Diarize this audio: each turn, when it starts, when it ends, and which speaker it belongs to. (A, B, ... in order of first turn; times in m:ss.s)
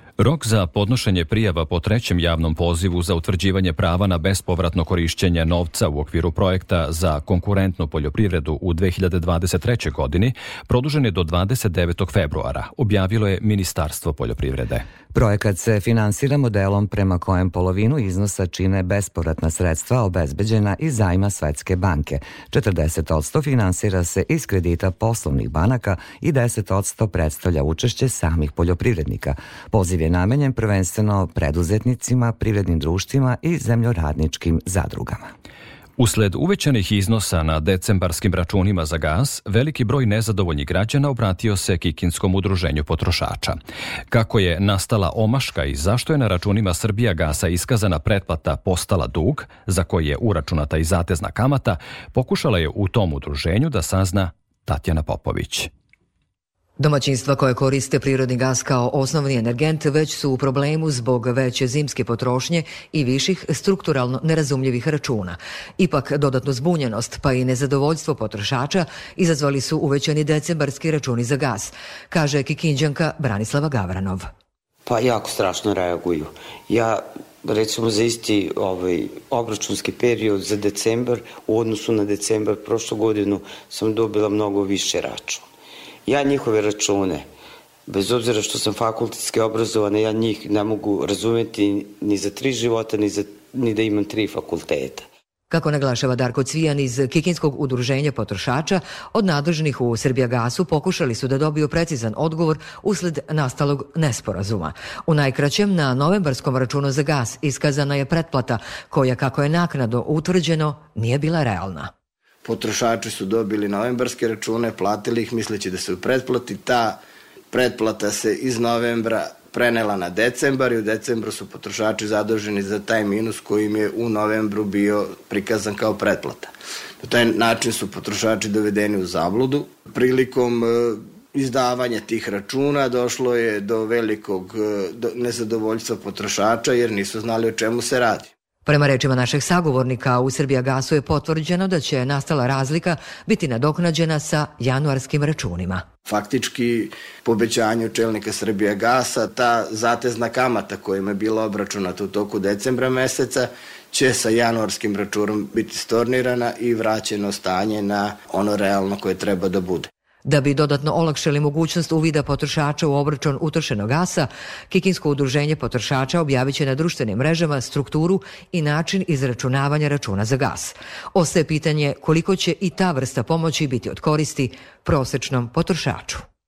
0:00.2-0:14.8 A
0:15.1-0:35.3 B
0:36.0-0:43.6 A
0:44.1-0:55.7 A
0:56.8-1:14.3 C
1:14.8-1:25.5 D
1:26.0-1:27.3 D
1:27.9-1:35.1 D
1:35.5-1:51.9 C
1:52.4-1:57.0 E
1:57.5-2:06.5 E
2:07.0-2:18.3 E
2:18.6-2:25.8 C
2:26.1-2:39.9 E
2:40.2-2:56.2 C